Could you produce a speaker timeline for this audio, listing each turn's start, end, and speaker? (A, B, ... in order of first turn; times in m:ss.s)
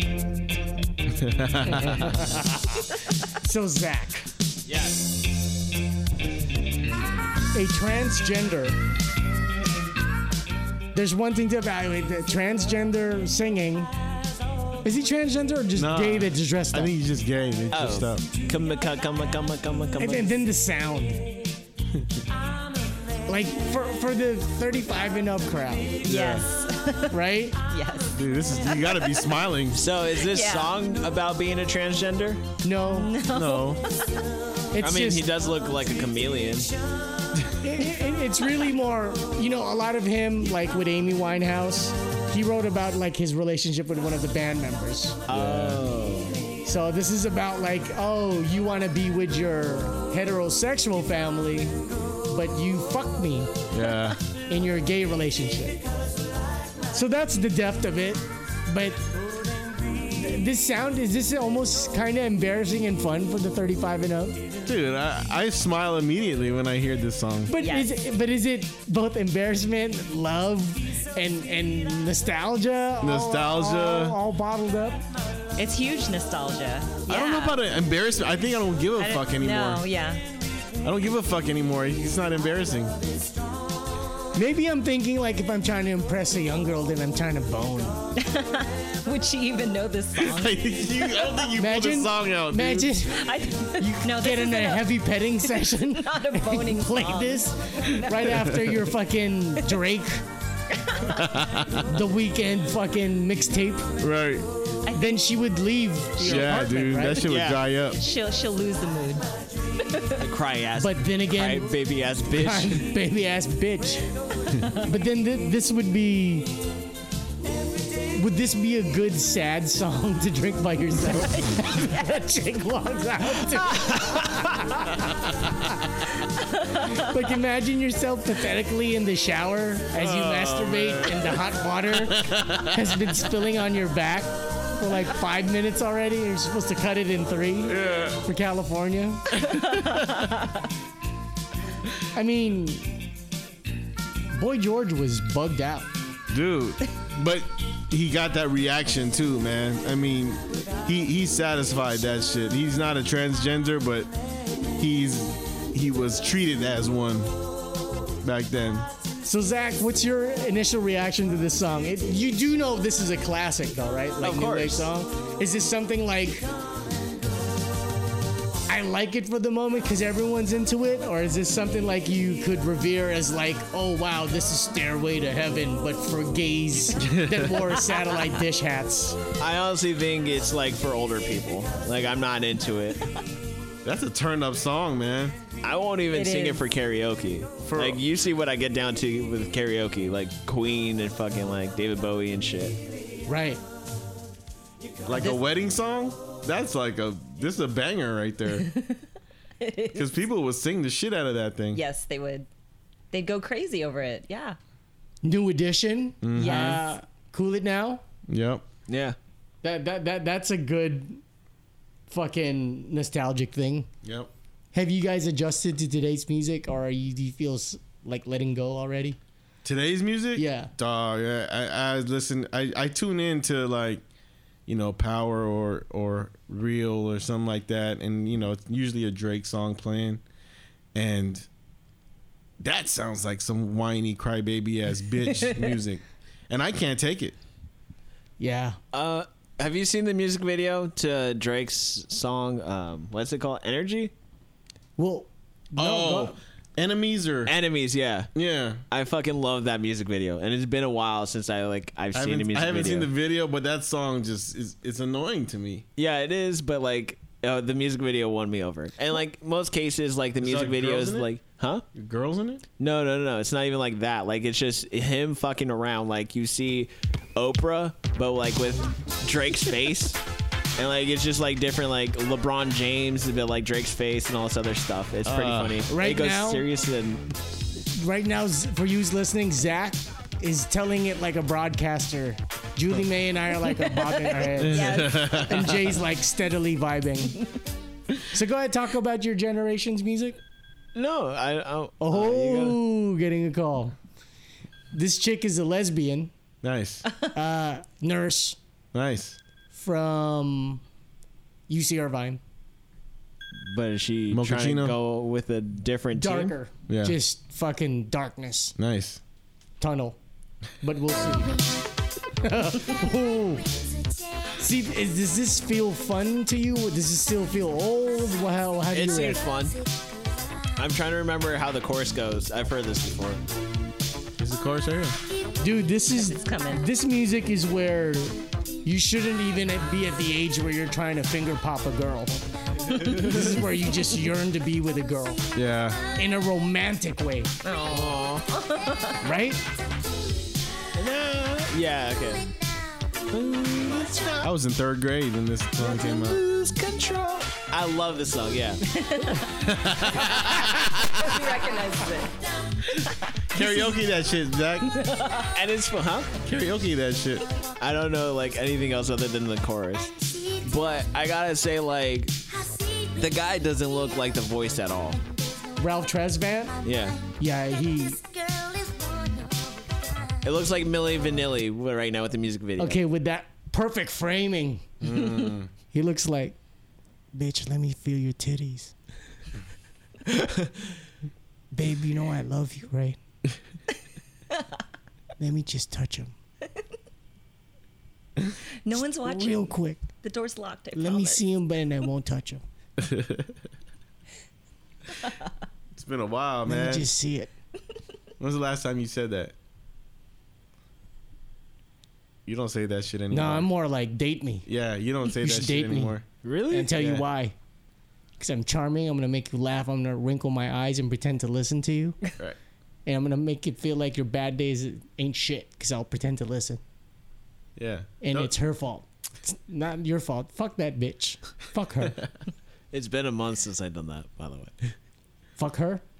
0:01.1-0:02.2 A
0:01.6-0:04.3 B
0:04.6-0:05.1 C
0:07.5-0:08.8 B
0:10.9-0:13.9 B
0:14.8-0:16.9 B
0:15.8-0:18.2 A
0:17.7-0:20.4 C
0:20.0-0:21.3 B
0:23.3-0:26.0 B
0:26.0-0:26.4 A
0:26.0-0:28.1 D
0:27.1-0:27.6 B
0:28.1-0:29.8 A
0:28.6-0:29.3 D
0:29.8-0:32.4 C
0:30.2-0:30.8 D
0:32.6-0:33.2 B
0:32.9-0:34.2 D
0:33.3-0:33.8 A
0:34.7-0:35.3 B
0:34.8-0:36.7 C
0:37.6-0:45.2 B
0:45.3-0:46.4 C
0:45.3-0:45.8 A
0:46.6-0:51.8 B
0:52.3-0:53.5 B
0:53.7-0:54.2 A
0:54.5-0:55.8 B
0:56.9-0:59.0 B
1:00.1-1:04.4 B
1:04.6-1:07.5 A
1:07.5-1:15.0 B
1:07.6-1:07.9 D
1:13.0-1:14.2 A
1:15.6-1:17.6 D
1:17.1-1:19.8 A
1:19.0-1:20.2 D
1:20.8-1:23.0 A
1:24.3-1:28.0 B
1:28.2-1:31.3 D
1:30.2-1:33.0 A
1:31.5-1:40.2 B
1:33.1-1:38.5 D
1:38.3-1:38.6 A
1:40.7-1:41.2 D
1:41.1-1:41.9 A
1:41.8-1:43.9 B
1:44.0-1:44.5 A
1:44.8-1:45.2 D
1:44.9-1:47.3 B
1:46.2-1:48.0 A
1:47.3-1:47.6 C
1:47.9-1:50.2 D
1:50.2-1:52.9 C
1:50.8-1:51.7 B
1:52.3-1:54.0 B
1:54.7-1:56.5 B
1:58.1-2:05.7 B
2:01.1-2:01.9 D
2:06.8-2:19.4 B
2:10.0-2:11.3 C
2:10.8-2:11.2 A
2:11.9-2:13.1 A
2:17.6-2:18.2 A
2:19.6-2:20.3 A
2:19.6-2:20.4 D
2:22.1-2:23.0 B
2:24.3-2:25.9 B
2:26.3-2:34.1 A
2:34.8-2:37.3 A
2:38.2-2:38.9 A
2:39.2-2:46.5 B
2:44.2-2:44.9 C
2:48.7-2:59.2 B
2:57.0-2:57.6 A
2:59.4-3:03.1 C
3:03.8-3:05.4 A
3:05.6-3:12.8 C
3:06.1-3:06.6 D
3:07.6-3:08.0 A
3:13.3-3:13.6 B
3:15.0-3:18.7 A
3:18.6-3:19.0 D
3:19.6-3:20.2 D
3:19.9-3:21.8 A
3:21.7-3:22.5 D
3:23.1-3:24.6 D
3:25.2-3:28.0 B
3:26.2-3:26.8 A
3:26.3-3:26.8 D
3:28.3-3:28.6 A
3:28.9-3:29.2 C
3:29.6-3:31.2 B
3:32.1-3:33.9 B
3:34.0-3:34.3 A
3:34.7-3:39.2 B
3:39.6-3:44.0 A
3:40.4-3:40.7 B
3:44.7-3:50.2 A
3:50.9-3:51.5 A
3:52.6-3:57.3 A
3:58.4-3:58.8 B
3:58.9-4:04.1 C
4:05.0-4:06.4 B
4:05.8-4:07.5 A
4:07.4-4:08.3 C
4:08.3-4:08.8 A
4:08.9-4:13.1 C
4:12.1-4:15.8 A
4:16.0-4:21.8 C
4:20.4-4:21.3 A
4:21.9-4:22.6 A
4:22.8-4:30.2 C
4:30.8-4:37.2 C
4:35.2-4:35.8 A
4:35.9-4:36.6 B
4:38.0-4:47.4 B
4:43.6-4:45.8 D
4:44.6-4:45.8 A
4:48.3-4:50.4 B
4:50.9-4:52.8 C
4:52.0-4:54.0 B
4:54.9-4:56.3 B
4:56.6-4:57.1 A
4:57.3-4:58.6 B
4:58.9-4:59.4 A
4:59.7-5:00.8 B
5:01.7-5:02.4 B
5:03.6-5:06.5 C
5:04.3-5:05.0 A
5:06.1-5:08.7 B
5:06.9-5:07.2 A
5:08.8-5:09.2 A
5:09.8-5:10.2 B
5:10.8-5:11.7 B
5:12.4-5:13.7 B
5:14.6-5:19.4 B
5:18.9-5:19.8 C
5:20.8-5:23.4 C
5:24.4-5:25.2 A
5:25.6-5:35.5 B
5:26.1-5:26.8 D
5:35.5-5:36.1 A
5:36.1-5:37.5 B
5:37.6-5:39.2 D
5:37.9-5:38.5 C
5:39.2-5:39.6 B
5:40.9-5:42.5 C
5:43.3-5:44.5 C
5:44.4-5:46.4 A
5:45.8-5:48.8 C
5:48.9-5:49.5 D
5:49.6-5:51.2 A
5:50.6-5:52.4 D
5:53.5-5:55.0 A
5:54.9-5:55.5 D
5:55.5-5:56.3 C
5:56.4-5:57.5 A
5:57.8-6:05.2 C
6:05.8-6:06.8 B
6:06.8-6:07.2 C
6:07.4-6:08.2 B
6:10.4-6:13.0 C
6:12.8-6:14.9 B
6:15.0-6:15.7 A
6:15.9-6:16.6 B
6:17.3-6:18.9 B
6:21.7-6:23.2 B
6:25.4-6:26.3 B
6:28.8-6:31.4 D
6:29.2-6:30.0 B
6:30.9-6:32.6 B
6:33.0-6:33.5 A
6:35.9-6:37.1 A
6:36.6-6:37.5 B
6:38.4-6:39.5 A
6:42.4-6:43.7 A
6:43.3-6:44.6 B
6:44.6-6:46.2 A
6:45.3-6:46.2 B
6:46.4-6:47.2 C
6:46.7-6:47.5 B
6:48.4-6:52.2 B
6:53.0-6:56.8 B
6:57.8-6:58.5 A
6:58.2-7:02.2 B
7:02.9-7:04.9 C
7:05.6-7:06.0 B